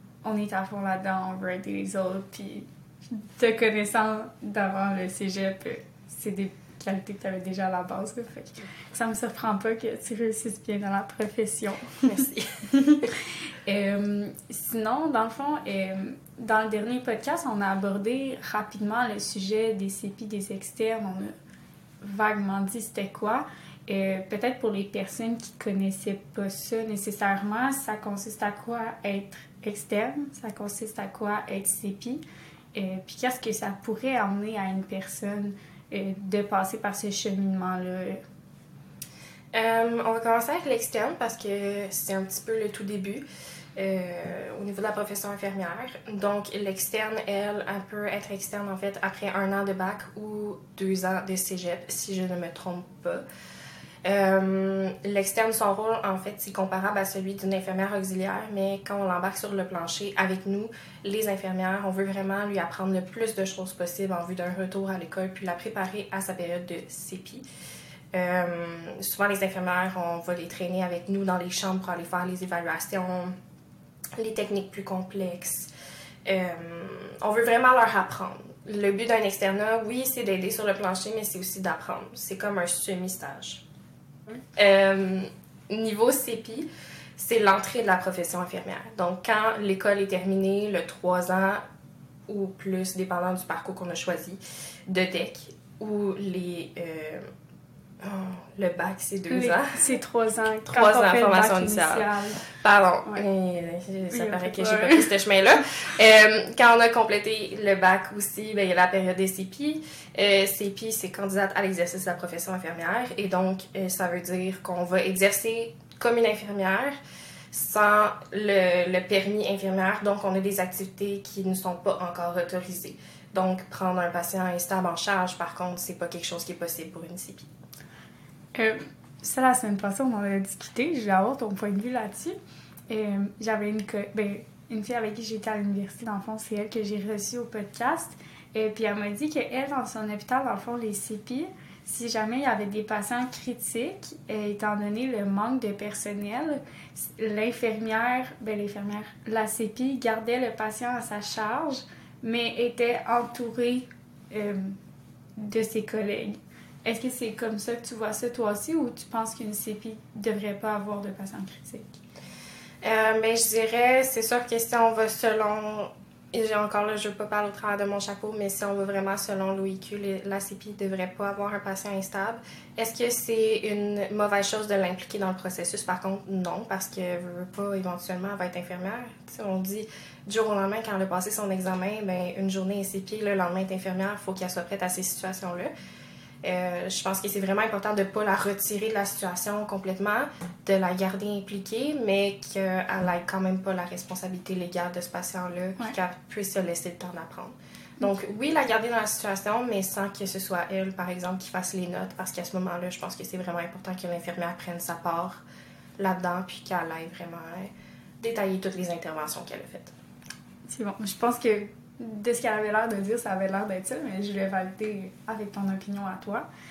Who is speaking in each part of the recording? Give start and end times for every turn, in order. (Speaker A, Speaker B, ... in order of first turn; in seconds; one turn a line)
Speaker A: 0.2-21.3
Speaker B: 12.0-13.1
Speaker A: 22.0-32.2
Speaker A: 32.7-38.2
Speaker B: 39.5-43.2
Speaker B: 43.8-53.2
Speaker B: 54.0-67.4
Speaker B: 68.1-73.3
Speaker B: 74.2-75.7
Speaker B: 76.2-83.6
Speaker B: 84.5-91.6
Speaker B: 92.3-97.2
Speaker B: 98.0-99.8
Speaker A: 99.3-102.4
Speaker B: 100.7-102.0
Speaker B: 102.6-117.0
Speaker A: 104.1-105.1
Speaker B: 117.5-127.5
Speaker A: 128.5-132.4
Speaker A: 132.9-154.8
Speaker A: 155.4-162.0
Speaker B: 162.8-185.7
Speaker B: 186.4-205.4
Speaker B: 206.0-209.9
Speaker A: 210.7-216.4